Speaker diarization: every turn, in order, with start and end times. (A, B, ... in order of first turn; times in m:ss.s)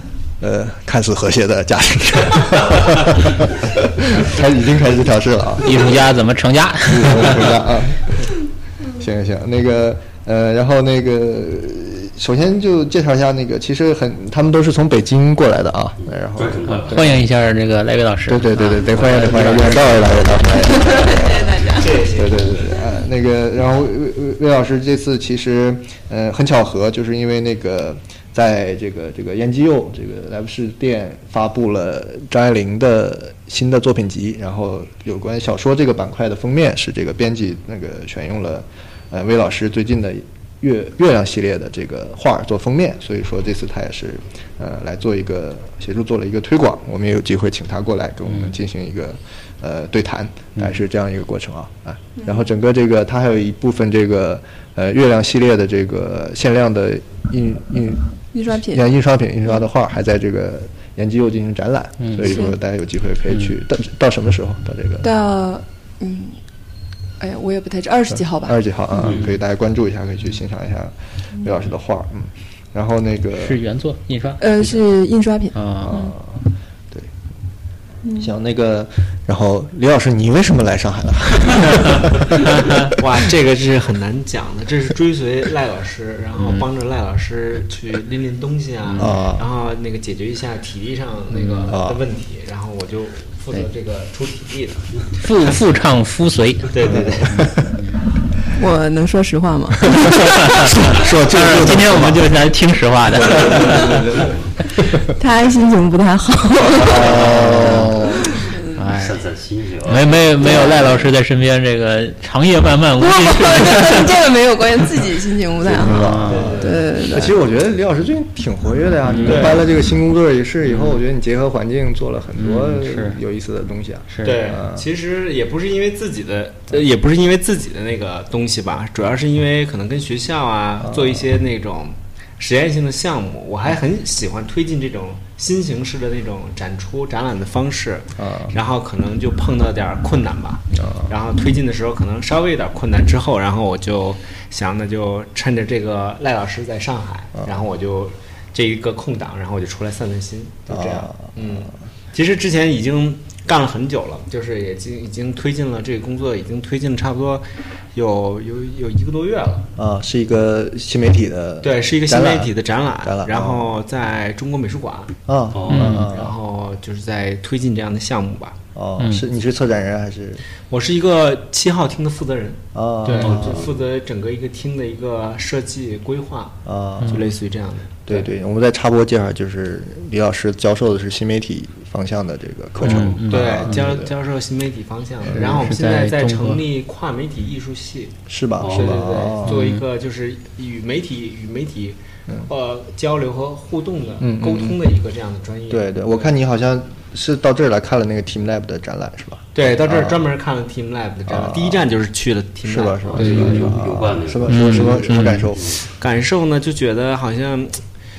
0:00.4-0:06.0 A
0:05.6-0:07.6 B
0:06.9-0:08.3 A
0:08.9-0:17.2 A
0:16.1-0:17.0 C
0:16.9-0:20.2 B
0:18.3-1:05.1 A
0:20.5-0:22.0 D
0:21.8-0:22.5 E
0:48.3-0:48.6 B
0:50.6-0:50.8 B
0:52.2-0:52.5 D
0:58.3-0:58.8 D
1:02.0-1:02.4 B
1:02.2-1:02.6 D
1:03.3-1:03.6 B
1:05.0-1:06.4 D
1:07.2-1:08.6 D
1:08.1-1:13.6 A
1:09.0-1:09.3 C
1:13.4-1:14.6 B
1:14.4-1:16.2 D
1:15.5-1:16.0 B
1:15.8-1:17.1 A
1:18.0-1:18.3 D
1:18.2-1:22.4 A
1:22.5-1:22.9 B
1:23.0-1:34.9 E
1:26.4-1:26.7 B
1:28.8-1:29.2 B
1:29.0-1:29.5 A
1:31.3-1:31.8 B
1:31.7-1:32.0 A
1:35.2-1:36.7 B
1:36.7-1:37.5 E
1:36.8-1:37.4 A
1:37.2-1:38.1 B
1:38.5-1:41.0 D
1:40.2-1:44.1 B
1:40.8-1:42.3 A
1:43.2-1:44.3 A
1:45.0-1:47.3 D
1:46.7-1:48.4 A
1:47.0-1:48.0 B
1:47.9-1:48.9 D
1:48.8-1:49.2 B
1:48.9-1:50.3 C
1:49.8-1:54.1 B
1:50.4-1:51.0 D
1:50.6-1:51.0 A
1:53.0-1:57.4 D
1:55.6-2:04.8 A
1:55.8-1:56.7 B
1:56.3-1:56.8 E
1:59.0-1:59.6 B
1:59.3-1:59.6 E
2:00.6-2:01.0 B
2:02.4-2:03.2 B
2:04.1-2:04.4 B
2:04.2-2:39.7 E
2:10.8-2:11.3 A
2:18.2-2:18.5 A
2:20.7-2:21.2 A
2:30.7-2:31.7 A
2:39.8-2:43.7 A
2:41.6-2:45.1 E
2:45.3-2:46.4 A
2:45.5-2:46.1 C
2:45.7-2:46.1 B
2:45.9-2:48.6 E
2:48.8-2:50.4 A
2:49.0-2:49.2 B
2:50.7-2:56.6 E
2:52.8-2:53.7 A
2:53.2-2:53.7 C
2:56.6-2:57.3 A
2:57.1-2:58.3 E
2:58.1-3:04.1 A
3:02.8-3:03.9 B
3:03.2-3:08.2 E
3:05.2-3:05.7 A
3:05.4-3:06.6 B
3:08.3-3:09.6 A
3:08.6-3:09.2 C
3:08.7-3:16.3 E
3:09.4-3:09.8 B
3:14.2-3:14.8 A
3:15.7-3:20.2 A
3:19.6-3:23.8 E
3:21.3-3:21.8 A
3:22.6-3:25.7 A
3:23.1-3:25.8 C
3:24.5-3:25.5 B
3:24.5-3:25.2 E
3:25.9-3:27.8 E